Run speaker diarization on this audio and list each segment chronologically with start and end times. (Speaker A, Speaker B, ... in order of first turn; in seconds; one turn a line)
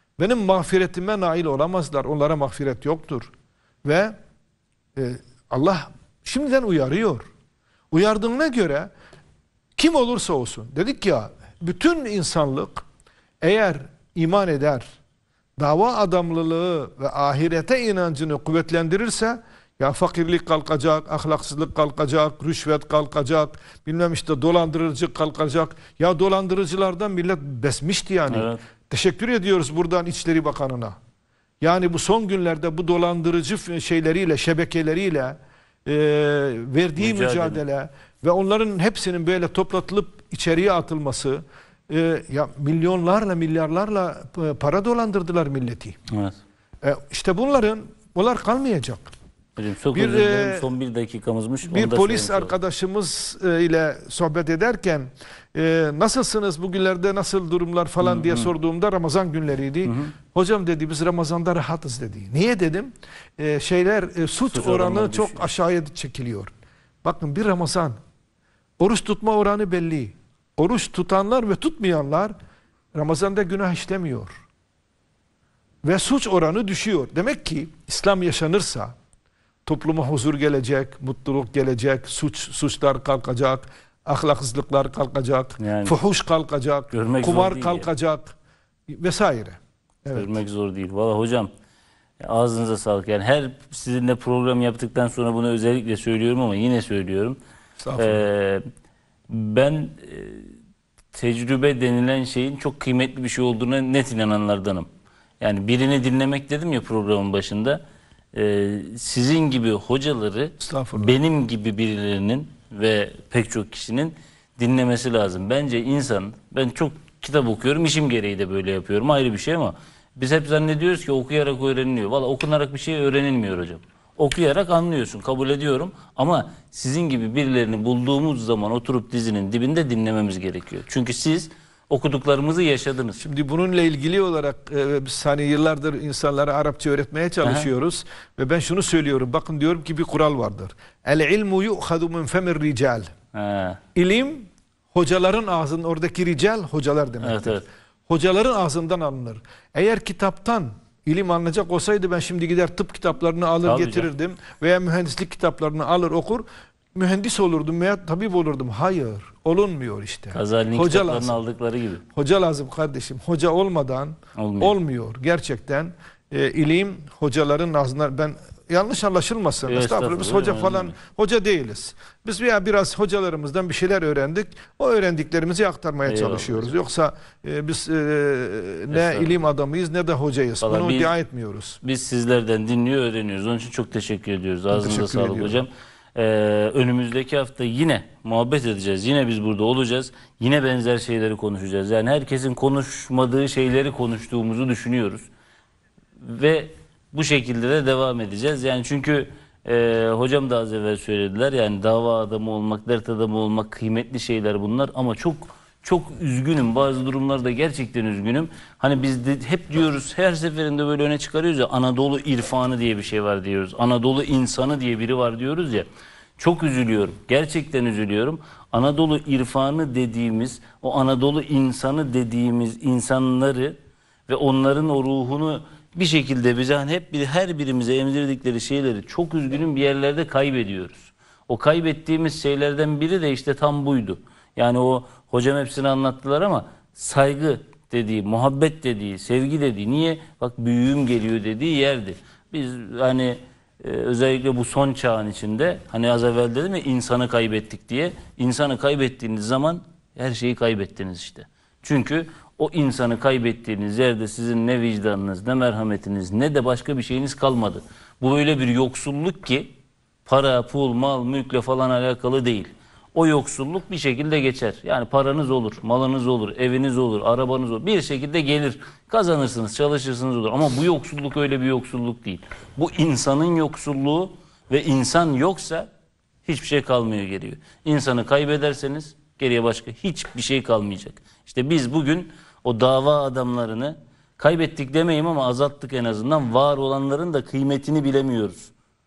Speaker A: 0.2-3.3
Speaker A: 3.8-4.1
Speaker A: 5.0-7.3
Speaker A: 7.9-8.9
Speaker A: 9.8-12.8
Speaker A: 13.4-14.9
Speaker A: 15.6-31.0
Speaker B: 28.3-28.6
Speaker A: 31.6-46.0
Speaker B: 37.0-37.6
Speaker B: 46.1-46.4
Speaker A: 46.8-49.1
Speaker B: 49.6-52.5
Speaker A: 49.9-50.7
Speaker A: 51.7-66.5
Speaker B: 58.0-58.5
Speaker B: 59.8-60.1
Speaker B: 64.5-65.5
Speaker A: 67.0-68.0
Speaker A: 68.8-72.3
Speaker A: 72.9-74.3
Speaker A: 75.8-78.9
Speaker A: 79.7-88.3
Speaker B: 85.6-86.0
Speaker B: 86.9-87.9
Speaker A: 88.9-90.3
Speaker B: 90.1-91.5
Speaker B: 92.2-97.4
Speaker A: 97.8-98.2
Speaker B: 98.0-98.6
Speaker B: 99.3-100.5
Speaker B: 101.1-104.9
Speaker B: 105.4-107.8
Speaker B: 108.3-133.2
Speaker A: 110.6-111.2
Speaker A: 133.2-143.1
Speaker B: 137.4-137.7
Speaker B: 143.3-143.8
Speaker A: 143.9-161.4
Speaker B: 147.2-147.6
Speaker B: 153.6-154.1
Speaker B: 160.3-162.0
Speaker A: 162.1-181.8
Speaker B: 164.3-164.8
Speaker B: 169.7-170.9
Speaker B: 176.0-176.7
Speaker B: 178.9-179.4
Speaker B: 180.6-181.1
Speaker B: 181.8-195.3
Speaker A: 184.7-185.6
Speaker B: 196.2-215.9
Speaker B: 216.4-223.8
Speaker B: 224.3-259.7
Speaker B: 260.2-275.9
Speaker B: 276.4-288.7